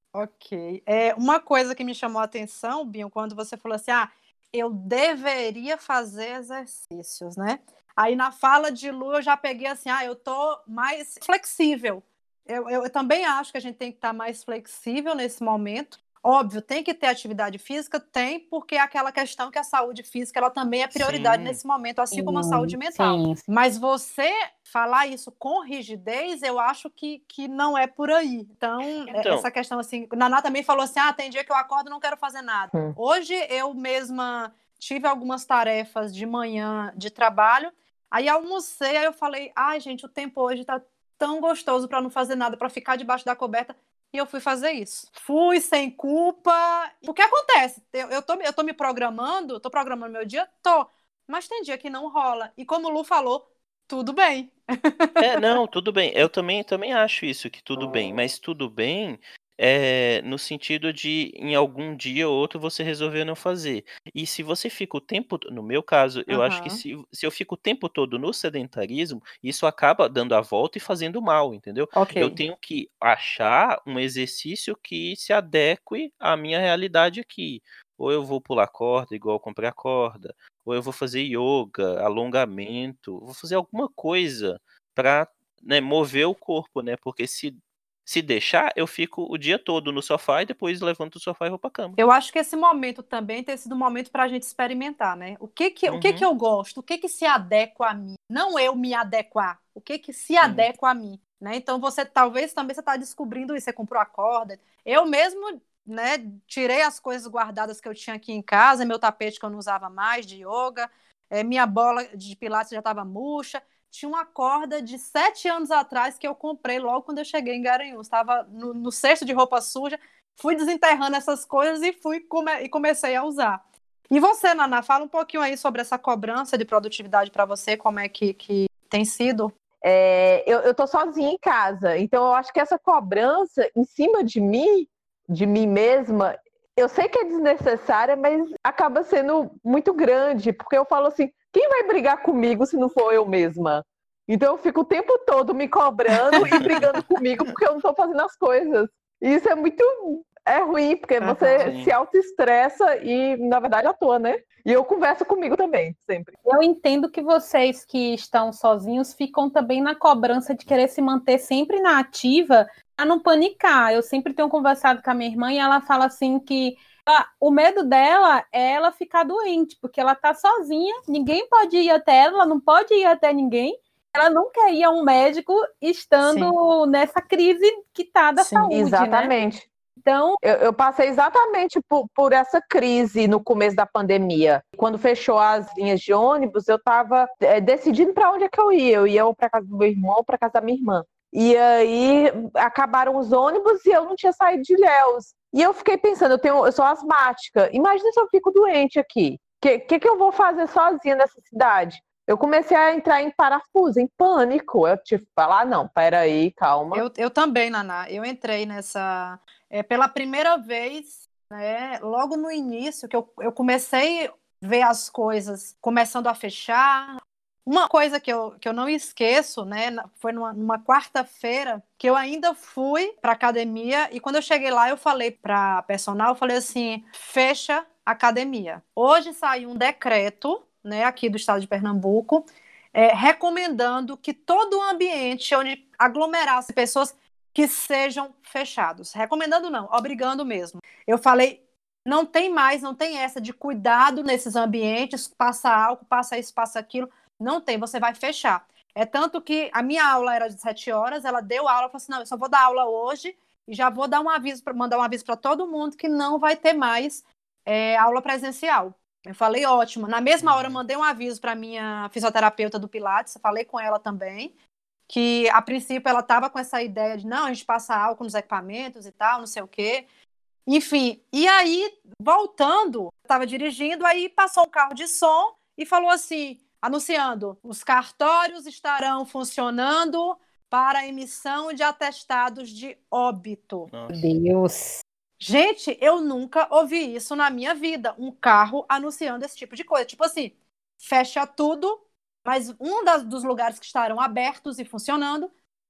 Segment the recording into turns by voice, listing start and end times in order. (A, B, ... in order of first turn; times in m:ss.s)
0:00.1-0:55.4 A
0:20.9-0:21.6 B
0:22.1-0:23.4 C
0:29.1-0:29.5 B
0:55.2-1:32.0 B
1:06.3-1:06.8 A
1:11.9-1:12.4 A
1:32.0-2:09.5 A
1:35.9-1:36.3 B
2:09.8-2:36.3 D
2:26.3-2:26.7 A
2:26.4-2:26.9 B
2:31.2-2:31.7 A
2:31.6-2:31.9 B
2:36.4-2:59.4 C
2:56.2-2:56.5 A
2:58.4-2:58.7 A
2:58.7-2:59.7 D
3:00.0-3:00.4 C
3:00.4-3:27.0 D
3:26.9-4:24.5 A
4:20.4-4:20.8 B
4:25.1-4:30.0 A
4:30.7-4:43.9 A
4:43.9-4:44.3 B
4:44.1-4:45.0 C
4:45.4-4:55.5 A